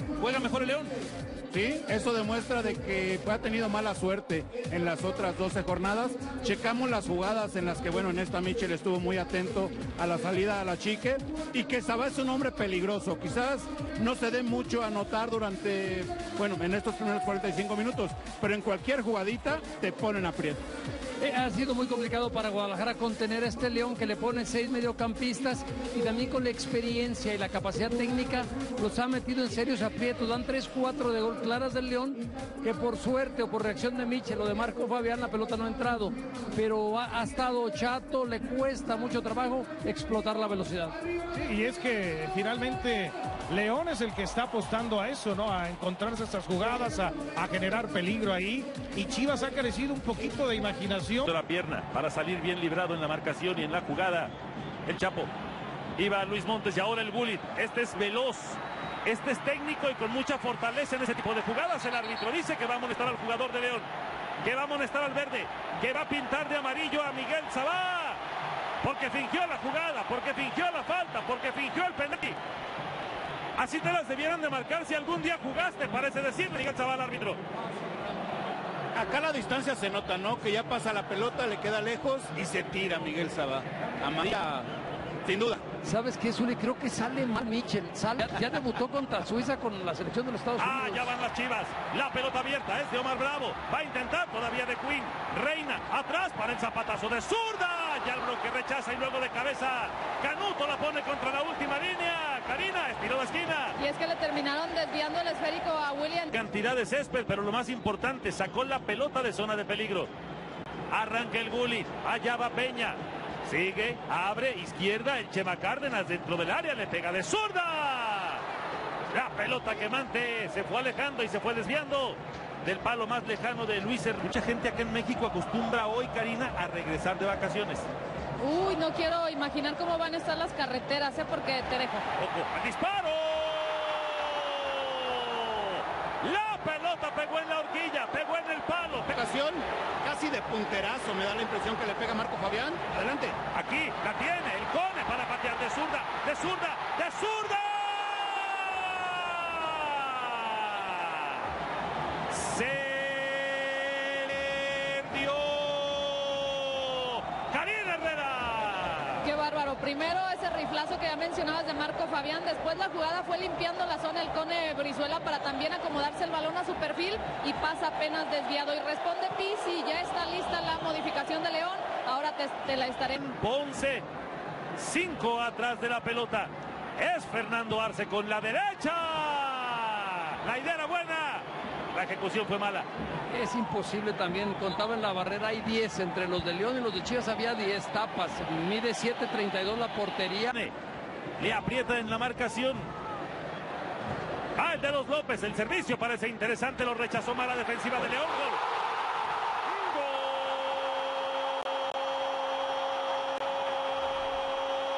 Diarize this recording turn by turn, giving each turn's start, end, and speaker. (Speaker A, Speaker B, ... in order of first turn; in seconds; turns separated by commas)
Speaker A: 0.2-0.9, Speaker B: 1.5-20.6, Speaker C: 21.2-41.0, Speaker D: 41.4-51.3, Speaker A: 51.2-54.3, Speaker A: 54.9-55.3, Speaker A: 56.0-63.9, Speaker A: 64.4-68.2, Speaker A: 68.8-72.4, Speaker A: 73.6-77.4, Speaker B: 78.9-84.7, Speaker B: 85.2-85.6, Speaker C: 85.8-91.1, Speaker A: 90.6-103.8, Speaker E: 103.8-106.3, Speaker A: 106.3-110.1, Speaker A: 110.9-118.4, Speaker A: 119.1-127.9, Speaker E: 128.4-132.1, Speaker A: 132.2-139.2, Speaker B: 139.1-143.4, Speaker A: 143.5-151.4, Speaker A: 152.3-159.2, Speaker E: 159.2-173.3, Speaker A: 173.3-174.1, Speaker A: 174.8-182.9, Speaker C: 183.3-190.5, Speaker A: 191.4-192.9, Speaker A: 194.6-198.6, Speaker A: 199.7-200.8